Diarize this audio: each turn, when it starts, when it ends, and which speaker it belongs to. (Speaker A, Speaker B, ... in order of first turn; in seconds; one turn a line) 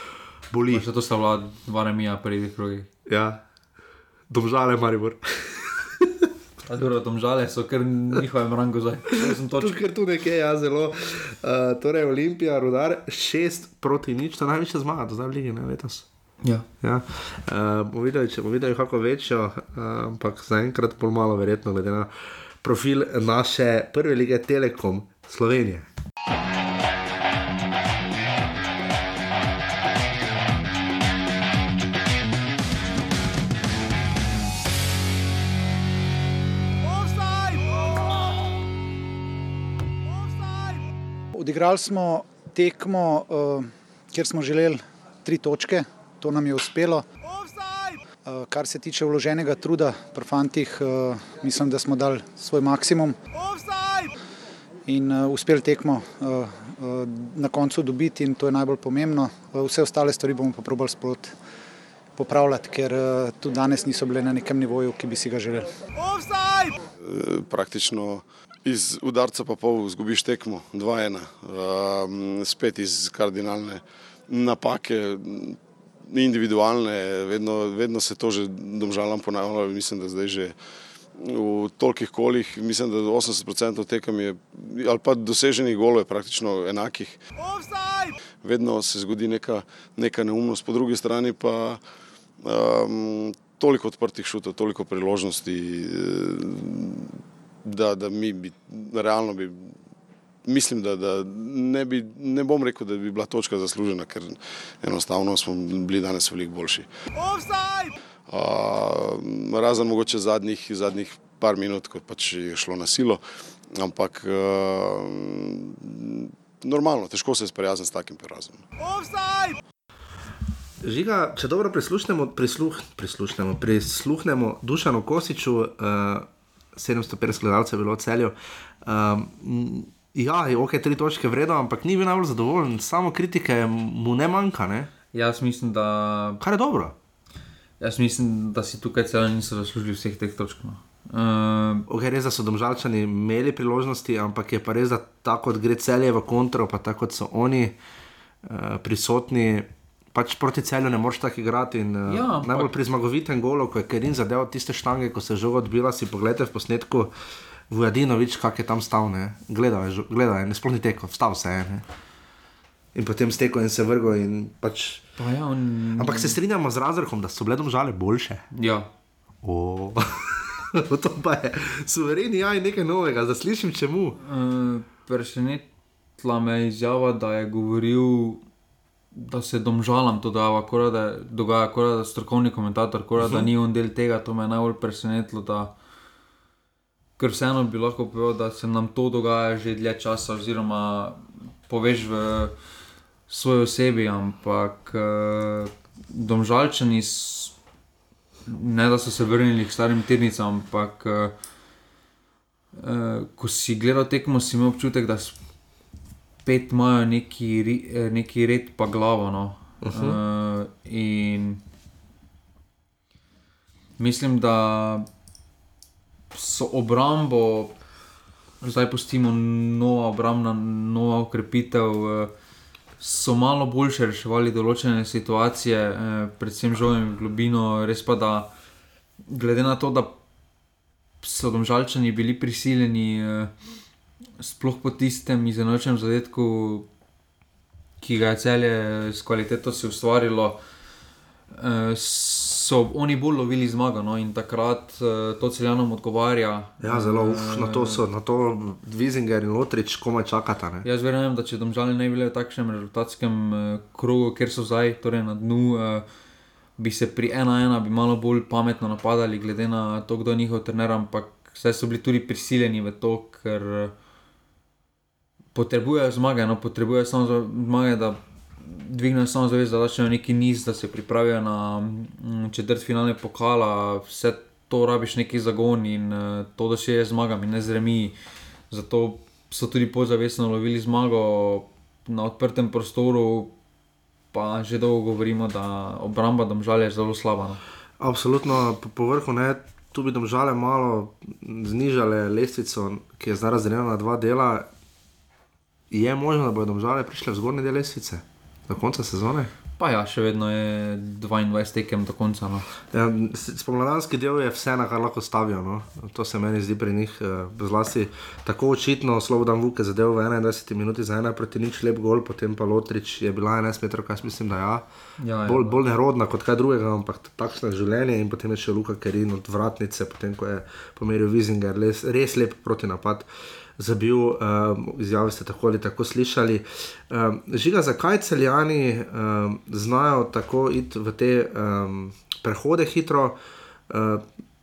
Speaker A: 0.5-0.9
Speaker B: 0.7-2.9
Speaker A: 3.1-3.4
Speaker A: 4.3-6.2
Speaker B: 6.7-9.8
Speaker A: 9.2-16.1
Speaker A: 16.8-22.1
Speaker A: 22.6-25.9
Speaker C: 41.4-47.0
Speaker C: 48.2-53.2
Speaker C: 54.9-61.3
Speaker C: 62.2-65.7
Speaker D: 67.0-80.6
Speaker D: 81.2-87.2
Speaker D: 88.4-91.8
Speaker D: 92.4-97.1
Speaker D: 97.7-99.8
Speaker D: 100.5-106.9
Speaker D: 108.3-113.2
Speaker D: 113.8-118.6
Speaker A: 120.8-134.9
Speaker B: 135.1-136.4
Speaker A: 136.4-136.9
Speaker B: 137.8-141.8
Speaker A: 141.9-147.8
Speaker A: 148.4-157.1
Speaker B: 152.1-152.7
Speaker A: 157.7-161.8
Speaker A: 162.9-165.0
Speaker B: 165.2-166.4
Speaker A: 165.9-168.4
Speaker B: 168.5-168.9
Speaker A: 169.4-174.2
Speaker B: 174.2-175.7
Speaker B: 176.2-178.4
Speaker B: 179.1-185.7
Speaker A: 183.2-183.5
Speaker B: 187.2-192.5
Speaker B: 193.3-197.5
Speaker B: 198.5-201.3
Speaker B: 202.8-205.3
Speaker B: 206.4-211.6
Speaker A: 209.8-210.2
Speaker B: 214.0-215.1
Speaker B: 216.3-217.7
Speaker B: 218.6-222.3
Speaker B: 223.0-228.5
Speaker B: 229.3-230.1
Speaker B: 231.2-233.5
Speaker B: 234.4-236.9
Speaker B: 238.0-240.6
Speaker B: 241.5-248.0
Speaker A: 246.8-250.9
Speaker B: 250.8-256.1
Speaker B: 256.8-263.9
Speaker B: 265.6-278.1
Speaker B: 278.7-283.5
Speaker B: 284.3-287.6
Speaker A: 288.0-294.7
Speaker A: 295.9-299.5
Speaker B: 299.8-302.7
Speaker A: 302.9-314.9
Speaker B: 315.2-315.8
Speaker A: 315.4-333.4
Speaker A: 333.9-334.2